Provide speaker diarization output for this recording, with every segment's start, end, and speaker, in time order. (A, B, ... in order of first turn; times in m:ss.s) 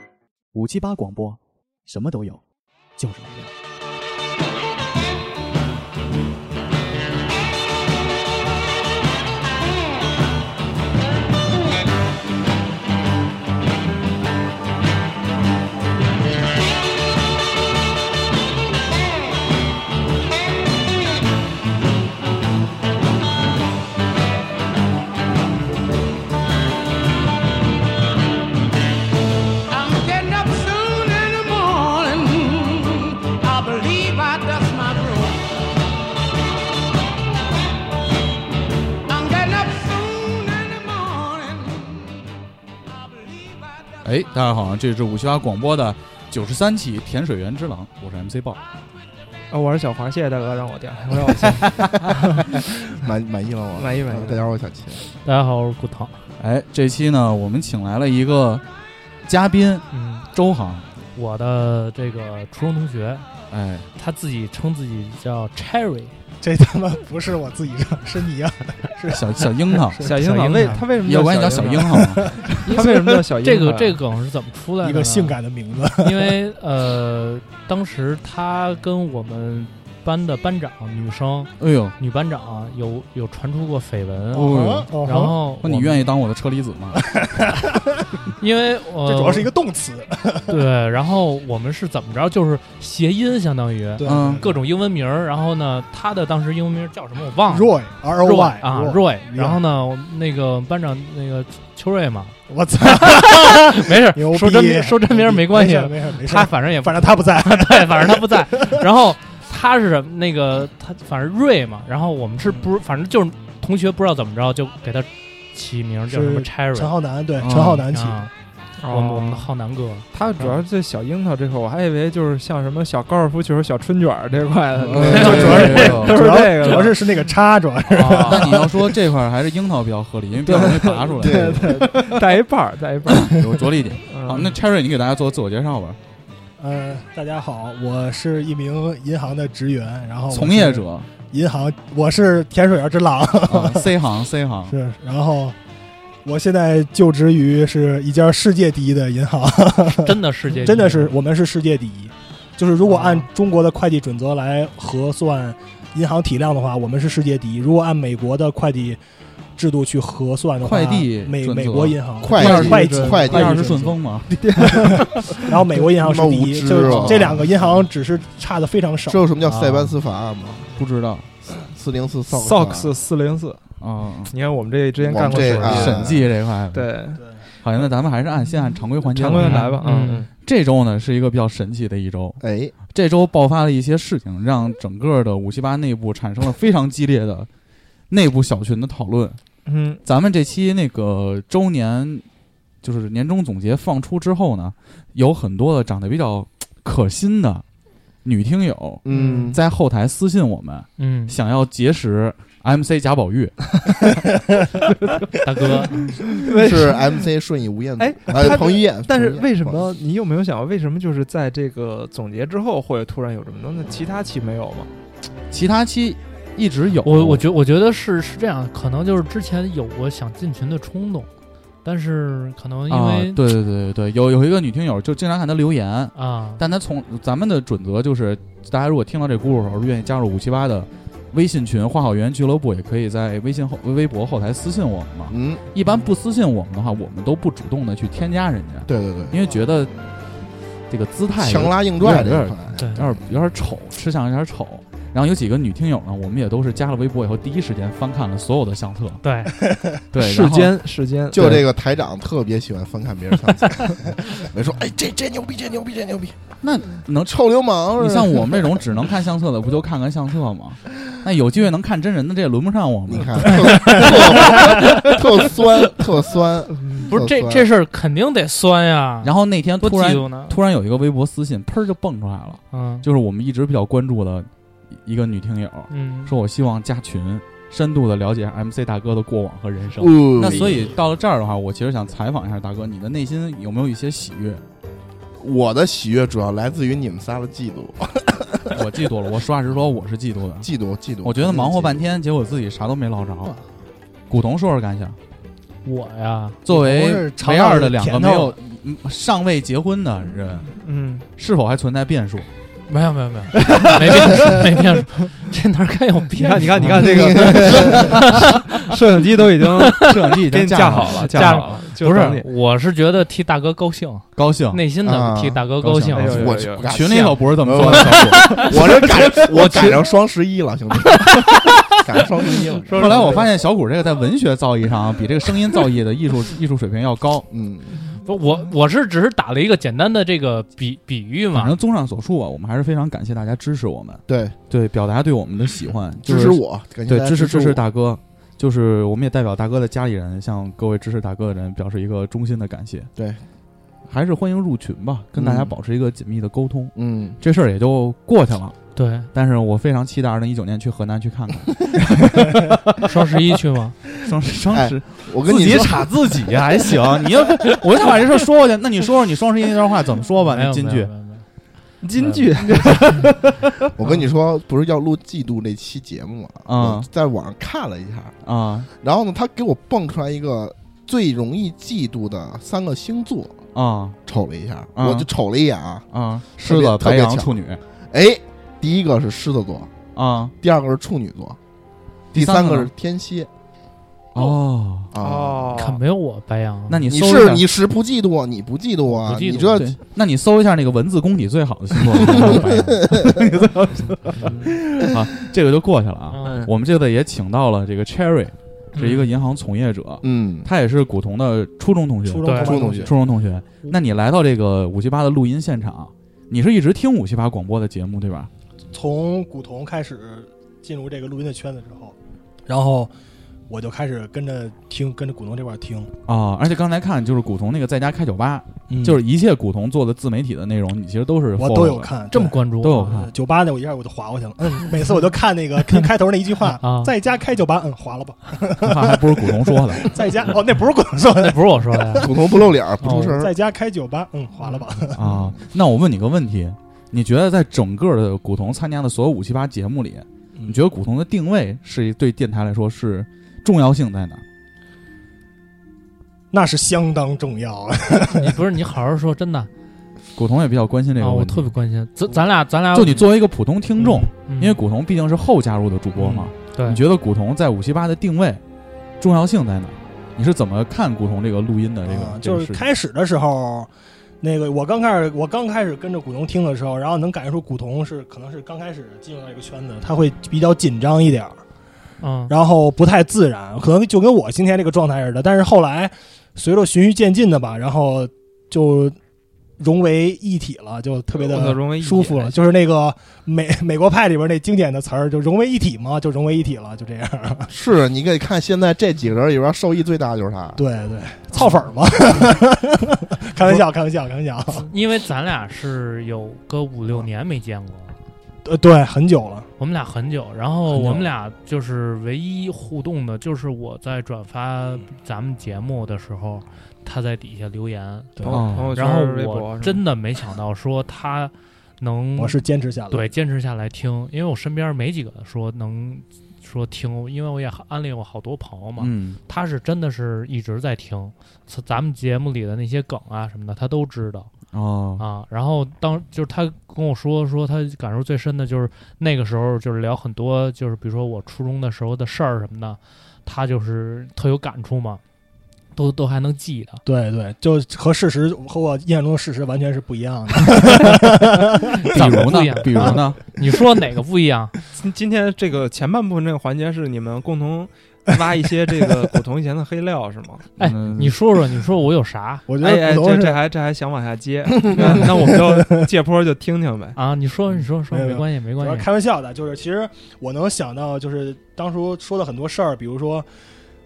0:00.5-0:02.4 A
0:03.0-0:03.5 A
0:29.9-0:32.0 B
0:33.4-0:34.6 B
0:39.1-0:41.3 B
0:44.0-0:48.6 C
0:49.5-0:52.6 D
0:52.9-0:55.0 E
0:53.7-0:54.4 D
0:55.2-0:56.2 F
0:56.4-0:58.6 C
0:59.2-1:00.8 C
0:59.9-1:00.3 F
1:01.1-1:03.2 F
1:03.5-1:03.8 C
1:04.0-1:06.1 F
1:06.4-1:10.1 G
1:09.1-1:12.8 C
1:10.0-1:12.0 D
1:11.9-1:13.0 G
1:12.7-1:14.0 D
1:13.4-1:15.4 F
1:14.8-1:16.4 G
1:16.0-1:26.1 F
1:21.6-1:21.9 C
1:24.3-1:24.9 C
1:24.4-1:25.3 G
1:25.6-1:27.0 C
1:27.1-1:27.7 G
1:28.4-1:29.5 F
1:29.0-1:30.6 G
1:30.5-1:56.9 F
1:34.0-1:34.4 G
1:34.0-1:34.4 C
1:37.5-1:39.6 G
1:42.5-1:48.8 G
1:56.1-1:58.3 G
1:57.4-1:57.9 C
1:57.9-1:58.3 F
1:58.8-1:59.5 D
1:58.9-2:00.6 F
2:00.1-2:07.1 D
2:04.9-2:06.2 C
2:04.9-2:08.9 G
2:05.1-2:06.8 F
2:07.9-2:08.6 D
2:08.0-2:11.7 C
2:10.4-2:14.6 D
2:11.2-2:11.8 E
2:11.5-2:12.0 G
2:13.1-2:16.0 C
2:16.6-2:24.0 G
2:20.3-2:21.1 C
2:23.5-2:24.8 C
2:24.7-2:25.6 G
2:26.2-2:39.0 G
2:29.9-2:31.1 F
2:32.8-2:33.3 F
2:39.6-2:44.0 G
2:40.6-2:45.6 C
2:42.2-2:43.7 E
2:44.6-2:49.2 G
2:45.9-2:47.5 E
2:49.1-2:50.7 E
2:50.7-2:51.3 C
2:51.6-2:52.9 E
2:52.3-2:53.6 D
2:53.8-2:54.3 C
2:54.3-2:56.1 D
2:55.0-2:56.3 E
2:55.4-2:57.0 C
2:56.7-2:57.2 D
2:57.6-3:07.5 C
2:59.0-3:00.3 D
2:59.4-3:00.3 F
3:02.4-3:02.7 E
3:08.1-3:09.4 C
3:09.6-3:10.0 D
3:10.0-3:12.2 C
3:12.8-3:17.6 C
3:18.2-3:24.1 C
3:19.0-3:19.6 E
3:19.1-3:19.4 D
3:21.0-3:21.4 F
3:25.4-3:26.1 F
3:26.4-3:27.2 D
3:26.6-3:29.8 E
3:28.0-3:34.9 D
3:35.5-3:37.4 C
3:37.0-3:41.3 F
3:41.8-3:43.5 F
3:42.9-4:00.0 C
3:46.1-3:46.6 F
3:55.3-3:55.6 E
3:58.8-3:59.4 E
4:00.9-4:09.2 C
4:01.4-4:02.8 E
4:02.8-4:03.0 F
4:09.2-4:09.5 F
4:10.1-4:10.7 C
4:10.1-4:11.6 D
4:11.3-4:16.5 E
4:11.4-4:11.6 C
4:16.6-4:17.4 C
4:17.2-4:18.8 E
4:18.0-4:25.1 C
4:23.1-4:27.7 E
4:23.7-4:24.0 F
4:26.7-4:27.0 D
4:27.1-4:30.6 F
4:29.2-4:44.6 C
4:32.7-4:33.0 F
4:35.9-4:36.4 F
4:40.0-4:41.0 E
4:45.4-4:48.8 E
4:48.7-4:50.7 C
4:50.6-4:52.0 E
4:51.2-4:53.6 C
4:54.3-4:55.2 C
4:55.8-4:56.6 F
4:56.6-5:00.7 C
4:56.7-4:58.5 G
5:00.8-5:01.2 D
5:01.4-5:02.5 C
5:02.9-5:08.8 F
5:06.4-5:12.5 D
5:07.0-5:08.1 E
5:09.9-5:11.7 C
5:11.1-5:17.9 F
5:14.4-5:14.8 C
5:15.0-5:15.6 E
5:15.8-5:19.9 C
5:16.1-5:16.9 D
5:16.3-5:23.6 E
5:18.4-5:18.7 F
5:22.9-5:27.5 C
5:22.9-5:23.3 F
5:27.5-5:28.0 E
5:28.2-5:31.7 F
5:31.5-5:43.1 C
5:34.3-5:34.6 E
5:36.2-5:37.8 E
5:43.2-5:43.4 E
5:44.1-5:48.8 C
5:45.4-5:45.7 E
5:47.0-5:47.4 E
5:48.9-5:49.3 F
5:49.3-5:53.4 C
5:53.0-5:54.0 F
5:54.2-6:01.1 C
5:54.7-5:56.1 E
6:00.4-6:01.4 F
6:02.0-6:03.3 D
6:02.2-6:03.0 F
6:02.8-6:03.2 C
6:04.0-6:08.4 E
6:06.6-6:07.1 C
6:08.4-6:08.9 C
6:09.0-6:13.6 E
6:13.7-6:14.2 C
6:14.3-6:16.1 E
6:15.0-6:15.3 C
6:16.1-6:17.8 C
6:16.6-6:17.5 E
6:18.1-6:20.0 E
6:20.1-6:20.5 C
6:20.6-6:21.6 E
6:22.3-6:22.9 C
6:22.3-6:23.5 E
6:24.3-6:25.1 C
6:25.1-6:25.7 E
6:25.2-6:26.0 D
6:25.7-6:27.1 F
6:26.9-6:27.6 C
6:27.1-6:29.9 E
6:29.1-6:29.8 F
6:29.7-6:48.5 C
6:32.2-6:33.3 E
6:32.4-6:32.9 F
6:36.3-6:36.7 F
6:39.0-6:39.3 F
6:40.2-6:40.7 E
6:42.2-6:43.1 G
6:42.4-6:42.8 F
6:42.6-6:43.1 E
6:48.9-6:52.1 G
6:52.7-6:53.1 G
6:53.7-6:56.1 G
6:56.3-7:02.1 C
6:58.9-6:59.2 G
7:01.6-7:12.6 G
7:02.3-7:03.2 F
7:02.8-7:03.3 C
7:06.8-7:07.1 F
7:08.8-7:10.0 C
7:11.4-7:12.3 F
7:12.2-7:13.5 E
7:13.0-7:13.4 F
7:13.3-7:15.4 G
7:15.1-7:24.4 C
7:26.5-7:28.5 G
7:28.3-7:29.7 F
7:30.4-7:31.7 C
7:31.2-7:33.3 F
7:32.9-7:38.6 C
7:34.0-7:34.8 F
7:36.2-7:37.0 F
7:39.2-7:42.8 C
7:42.0-7:43.9 G
7:44.4-7:51.6 G
7:52.2-7:52.5 F
7:52.5-7:59.2 G
7:59.8-8:07.7 G
8:01.4-8:02.6 D
8:07.7-8:10.8 E
8:10.8-8:14.9 G
8:14.8-8:18.1 F
8:18.6-8:19.7 G
8:19.8-8:44.5 F
8:28.4-8:30.0 D
8:28.5-8:28.9 C
8:32.4-8:33.3 G
8:39.0-8:39.4 C
8:44.7-8:45.2 C
8:45.2-8:55.2 F
8:55.9-8:57.0 F
8:57.0-9:02.2 G
9:02.0-9:04.7 F
9:02.1-9:03.4 C
9:04.9-9:10.7 D
9:10.8-9:12.6 F
9:10.8-9:11.4 C
9:12.7-9:13.6 G
9:12.8-9:17.2 D
9:15.0-9:16.0 G
9:17.1-9:19.1 F
9:18.1-9:23.5 G